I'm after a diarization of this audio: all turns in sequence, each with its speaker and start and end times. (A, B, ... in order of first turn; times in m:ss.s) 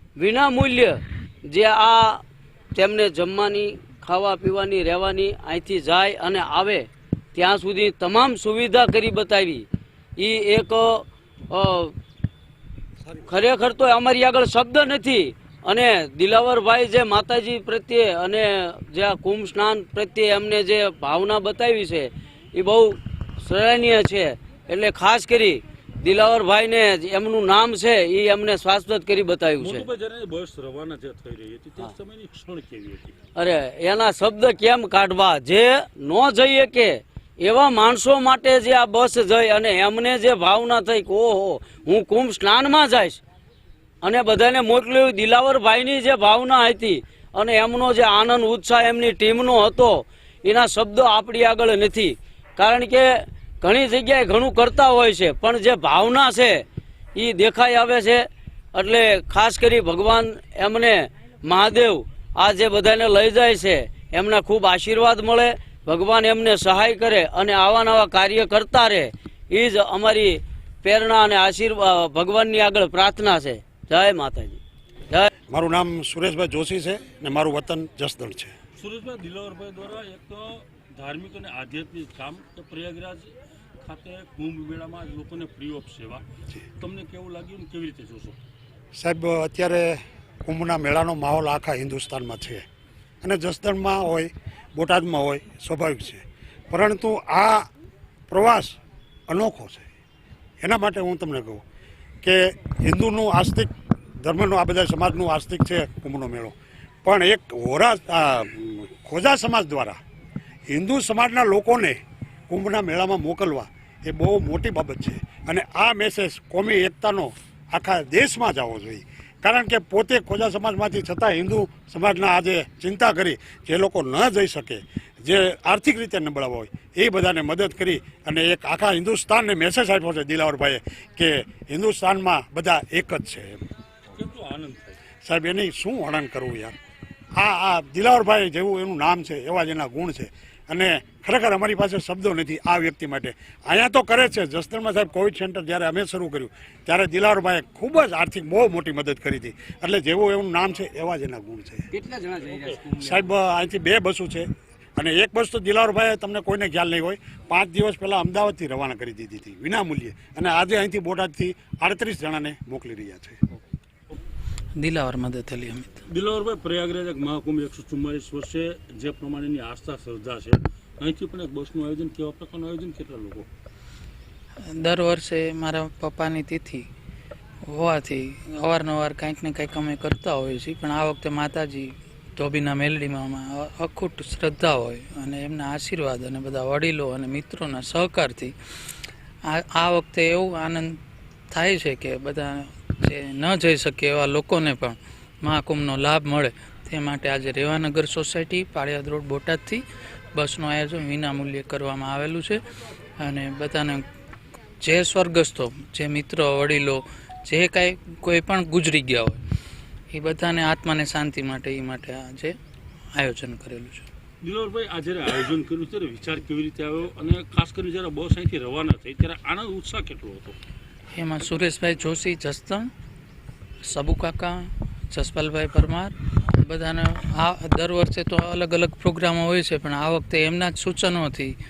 0:00.2-0:02.2 A
0:02.7-0:09.6 A
0:10.2-0:11.9 A
0:13.0-0:13.3 B
0:13.2-0:29.9 A
0:29.6-0:33.2 B
0:33.4-0:43.2 A
0:44.0-0:53.0 A
0:53.6-0:56.6 A
0:57.2-0:58.2 A
0:58.7-1:15.3 A
1:15.5-1:18.5 C
1:18.7-1:26.2 B
1:26.8-1:28.4 B
1:29.0-1:32.6 C
1:33.2-1:37.7 C
1:38.3-1:38.8 C
1:39.3-1:39.9 C
1:40.6-1:41.6 C
1:42.2-1:43.7 C
1:44.2-1:46.5 C
1:47.0-1:50.0 C
1:50.7-2:13.6 C
2:14.1-2:15.0 B
2:15.2-2:16.7 C
2:17.4-2:31.9 C
2:32.0-2:33.3 B
2:32.9-2:43.4 C
2:44.8-2:46.0 D
2:46.1-2:53.5 B
2:54.8-2:56.9 D
2:57.6-3:08.5 D
3:09.5-3:11.0 D
3:11.5-3:19.8 D
3:20.3-3:22.6 D
3:23.2-3:24.0 D
3:24.8-3:29.4 D
3:30.1-3:32.5 D
3:33.2-3:34.1 D
3:34.4-3:40.5 B
3:41.1-3:42.9 D
3:43.9-3:51.5 D